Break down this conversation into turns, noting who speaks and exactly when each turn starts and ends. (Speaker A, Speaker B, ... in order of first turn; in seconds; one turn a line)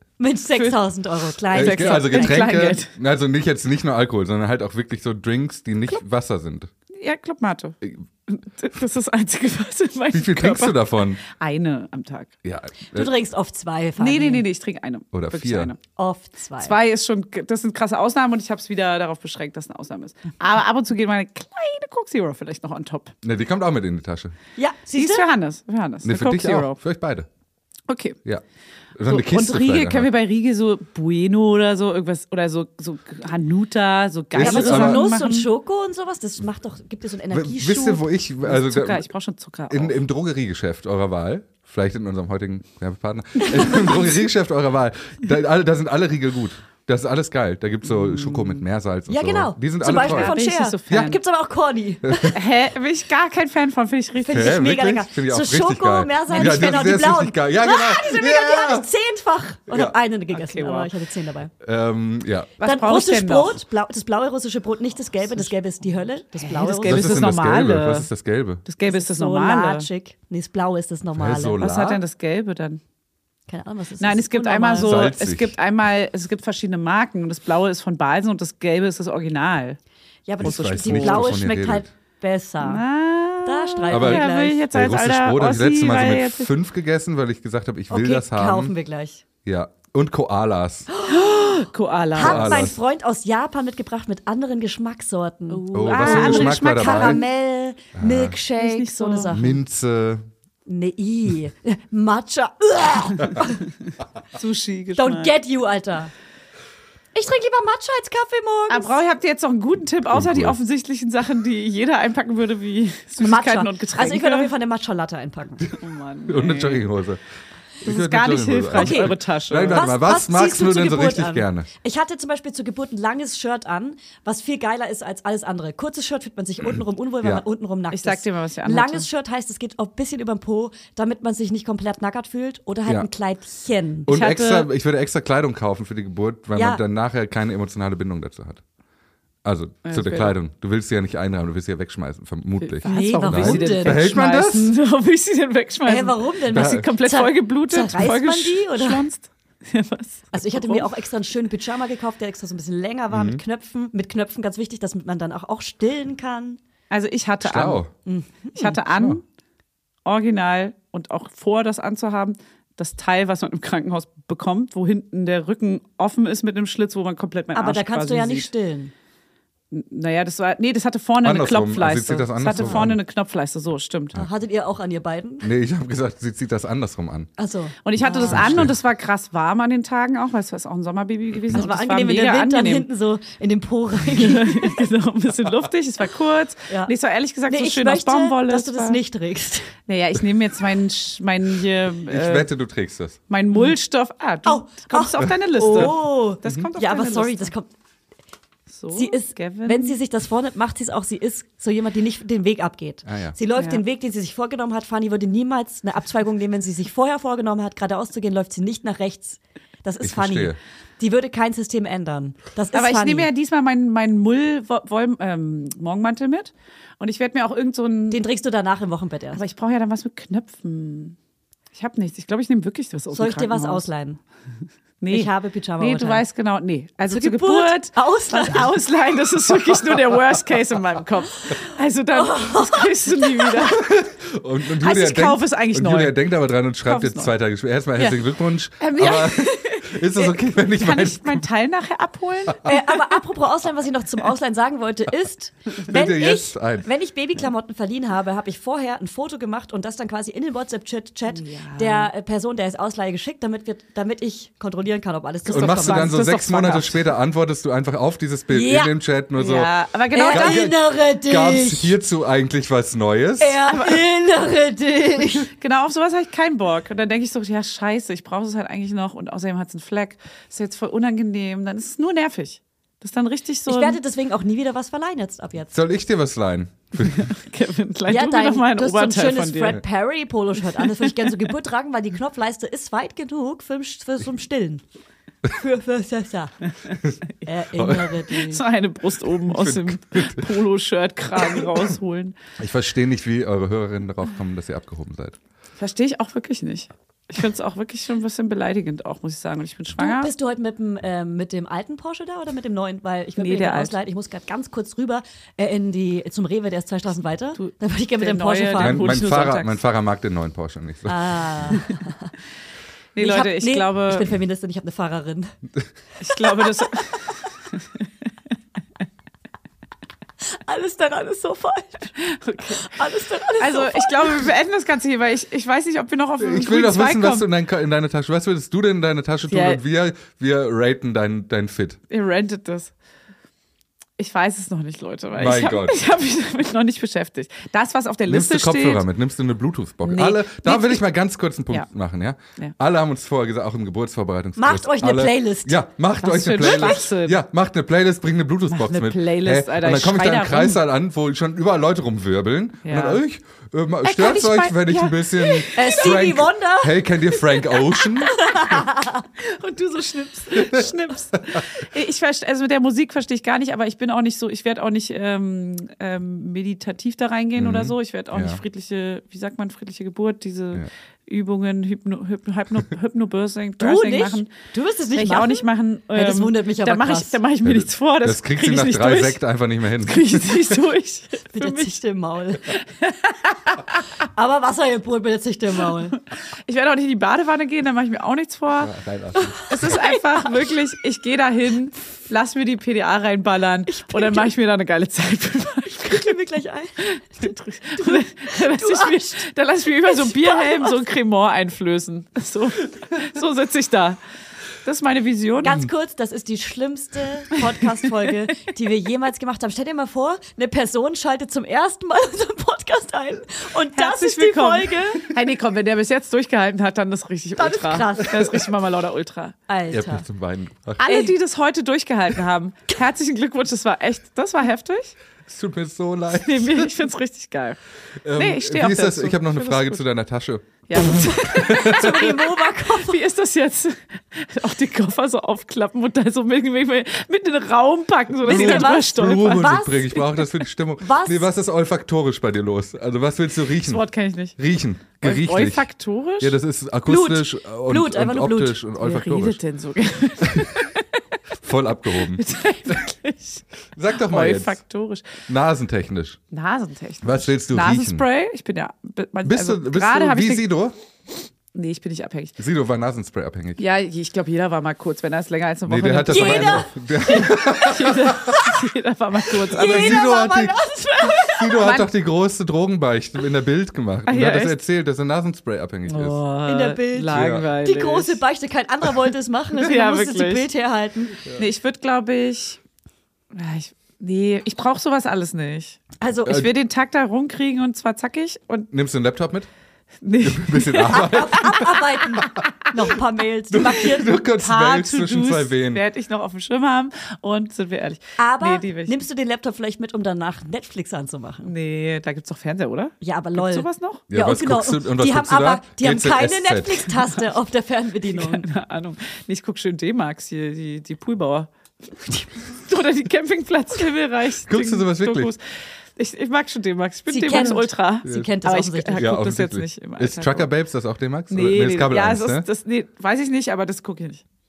Speaker A: 0.2-2.5
Speaker B: 1.5-2.9
Speaker C: 1.5-6.7
Speaker B: 7.0-12.3
Speaker C: 10.1-11.2
Speaker C: 12.4-13.1
Speaker A: 12.9-14.4
Speaker B: 14.0-15.8
Speaker C: 15.1-15.7
Speaker A: 15.9-16.7
Speaker B: 16.6-23.1
Speaker C: 23.2-24.3
Speaker A: 24.6-25.3
Speaker B: 24.9-26.8
Speaker C: 26.0-27.3
Speaker B: 27.9-28.2
Speaker C: 28.9-30.1
Speaker B: 29.1-35.5
Speaker C: 34.3-35.0
Speaker A: 34.4-38.0
Speaker C: 37.3-39.1
Speaker B: 38.4-40.0
Speaker C: 39.7-50.3
Speaker A: 43.5-43.9
Speaker B: 47.9-48.6
Speaker A: 49.1-52.3
Speaker B: 49.8-51.2
Speaker C: 50.9-51.1
Speaker C: 52.0-52.4
Speaker B: 52.3-54.5
Speaker A: 54.2-61.5
Speaker C: 54.3-58.9
Speaker B: 56.3-57.0
Speaker C: 59.7-60.0
Speaker B: 60.3-60.9
Speaker C: 61.6-62.5
Speaker B: 62.6-63.6
Speaker A: 62.6-67.4
Speaker B: 66.4-68.1
Speaker C: 66.8-68.6
Speaker B: 68.6-69.9
Speaker A: 68.8-71.7
Speaker C: 71.2-72.0
Speaker B: 71.6-72.8
Speaker A: 73.5-75.0
Speaker B: 74.0-79.8
Speaker C: 74.8-75.5
Speaker A: 80.3-82.8
Speaker C: 80.4-81.9
Speaker B: 80.4-81.4
Speaker B: 82.6-86.5
Speaker A: 83.5-84.6
Speaker C: 83.9-88.7
Speaker A: 87.9-89.2
Speaker C: 89.5-90.9
Speaker A: 90.9-91.5
Speaker B: 91.1-92.7
Speaker A: 92.1-99.6
Speaker C: 92.2-92.8
Speaker B: 95.5-97.2
Speaker C: 95.7-97.2
Speaker C: 98.0-98.3
Speaker B: 98.5-99.4
Speaker C: 99.3-100.3
Speaker A: 100.7-103.6
Speaker B: 104.3-105.3
Speaker A: 105.0-106.1
Speaker A: 107.1-109.0
Speaker B: 108.7-114.5
Speaker C: 110.1-110.6
Speaker A: 113.2-115.7
Speaker B: 115.8-116.9
Speaker C: 116.3-117.2
Speaker C: 117.8-121.7
Speaker B: 117.8-119.9
Speaker A: 118.7-119.1
Speaker A: 119.7-134.7
Speaker B: 127.9-129.1
Speaker C: 134.1-138.6
Speaker A: 136.6-136.8
Speaker C: 139.4-144.7
Speaker B: 139.8-140.3
Speaker B: 142.6-150.9
Speaker A: 142.8-144.1
Speaker A: 145.9-149.0
Speaker C: 146.5-146.9
Speaker A: 150.3-156.6
Speaker C: 153.1-153.4
Speaker B: 156.9-157.8
Speaker C: 157.4-157.9
Speaker A: 158.1-158.8
Speaker B: 158.5-159.2
Speaker C: 158.9-159.2
Speaker B: 160.1-168.5
Speaker A: 167.5-168.9
Speaker B: 169.7-174.2
Speaker C: 171.2-173.0
Speaker A: 172.6-172.9
Speaker A: 174.1-175.5
Speaker C: 175.4-177.3
Speaker A: 177.4-178.6
Speaker B: 177.8-182.9
Speaker C: 178.0-178.7
Speaker A: 181.5-184.8
Speaker B: 184.1-189.0
Speaker A: 187.5-189.7
Speaker B: 189.9-192.5
Speaker C: 192.1-193.2
Speaker B: 193.3-197.5
Speaker A: 194.4-197.7
Speaker B: 198.7-199.9
Speaker A: 198.9-213.3
Speaker C: 203.1-203.4
Speaker B: 203.6-203.8
Speaker C: 210.0-210.6
Speaker B: 212.7-218.2
Speaker A: 218.1-219.4
Speaker B: 219.3-221.2
Speaker B: 221.7-223.9
Speaker A: 223.1-224.2
Speaker B: 225.0-234.0
Speaker A: 225.1-226.2
Speaker A: 227.1-228.7
Speaker A: 232.2-233.6
Speaker C: 233.8-241.5
Speaker B: 234.8-236.3
Speaker B: 236.8-237.3
Speaker B: 238.8-243.2
Speaker A: 242.6-256.5
Speaker C: 245.8-246.9
Speaker B: 251.3-252.1
Speaker B: 255.5-257.0
Speaker C: 255.5-259.7
Speaker A: 258.5-258.9
Speaker B: 259.4-260.7
Speaker A: 260.1-261.9
Speaker C: 260.3-263.6
Speaker A: 263.4-265.5
Speaker B: 263.7-264.1
Speaker B: 265.5-274.0
Speaker A: 273.7-275.7
Speaker C: 275.7-277.3
Speaker B: 277.0-279.8
Speaker A: 278.1-284.8
Speaker A: 285.4-286.6
Speaker A: 287.4-288.6
Speaker C: 287.8-288.1
Speaker B: 288.3-292.4
Speaker C: 289.4-290.5
Speaker C: 292.6-295.4
Speaker B: 295.8-300.3
Speaker A: 300.0-309.2
Speaker B: 303.4-303.9
Speaker B: 307.6-309.8
Speaker C: 308.8-311.4
Speaker A: 311.1-312.3
Speaker B: 313.1-314.3
Speaker A: 313.2-315.6
Speaker B: 316.2-317.4
Speaker A: 316.3-317.0
Speaker A: 320.5-322.1
Speaker B: 322.2-322.9
Speaker A: 322.7-324.5
Speaker B: 323.6-327.5
Speaker C: 326.4-332.0
Speaker B: 329.5-329.8
Speaker B: 332.1-332.9
Speaker B: 334.2-339.1
Speaker C: 335.3-335.9
Speaker C: 338.3-358.4
Speaker B: 340.0-341.0
Speaker A: 344.6-345.9
Speaker B: 346.2-347.4
Speaker B: 348.7-350.8
Speaker B: 352.8-353.2
Speaker B: 354.0-356.2
Speaker A: 355.7-357.1
Speaker A: 358.4-359.2
Speaker B: 359.4-374.5
Speaker C: 360.5-360.9
Speaker C: 367.6-368.6
Speaker A: 373.8-377.4
Speaker B: 375.1-379.4
Speaker C: 377.6-380.8
Speaker B: 380.0-382.0
Speaker A: 381.6-382.7
Speaker B: 383.0-383.8
Speaker A: 384.3-386.2
Speaker B: 386.7-388.9
Speaker C: 388.8-390.0
Speaker B: 389.7-396.4
Speaker A: 393.9-394.5
Speaker A: 395.9-399.4
Speaker B: 397.0-404.2
Speaker A: 400.0-400.9
Speaker B: 404.8-405.8
Speaker A: 405.6-415.2
Speaker B: 413.9-419.6
Speaker A: 417.6-418.6
Speaker A: 419.7-420.3
Speaker C: 419.9-421.1
Speaker B: 421.0-425.1
Speaker C: 425.5-426.9
Speaker B: 426.3-427.8
Speaker C: 428.2-432.2
Speaker B: 428.3-430.0
Speaker B: 430.9-432.3
Speaker A: 430.9-433.2
Speaker B: 432.9-439.8
Speaker A: 438.4-440.4
Speaker C: 438.4-444.0
Speaker A: 441.0-441.6
Speaker B: 443.8-444.6
Speaker C: 444.6-445.9
Speaker B: 445.2-446.6
Speaker C: 446.4-449.6
Speaker A: 447.1-448.8
Speaker B: 449.0-451.1
Speaker C: 450.4-450.8
Speaker C: 451.6-453.0
Speaker B: 452.3-453.6
Speaker C: 453.9-454.8
Speaker B: 454.1-455.4
Speaker C: 455.5-456.4
Speaker B: 456.5-460.8
Speaker C: 457.2-458.2
Speaker C: 459.4-460.9
Speaker B: 461.7-462.6
Speaker C: 462.6-463.8
Speaker B: 463.8-472.1
Speaker C: 465.9-468.7
Speaker A: 466.3-467.9
Speaker C: 469.7-470.8
Speaker A: 469.7-472.0
Speaker C: 471.3-476.4
Speaker B: 474.3-474.8
Speaker B: 476.1-478.4
Speaker A: 476.7-481.4
Speaker C: 477.3-477.7
Speaker B: 479.7-480.7
Speaker B: 481.6-482.8
Speaker B: 483.5-488.9
Speaker A: 486.2-486.6
Speaker C: 488.9-489.7
Speaker B: 490.2-492.5
Speaker C: 490.4-491.9
Speaker A: 491.1-494.4
Speaker C: 493.7-496.0
Speaker B: 494.4-499.2
Speaker A: 498.4-501.7
Speaker B: 501.6-504.2
Speaker A: 503.2-508.6
Speaker C: 504.3-507.1
Speaker B: 508.3-511.7
Speaker B: 512.2-515.6
Speaker C: 514.6-515.5
Speaker B: 516.2-520.7
Speaker A: 517.3-519.3
Speaker C: 519.1-522.6
Speaker B: 521.5-524.4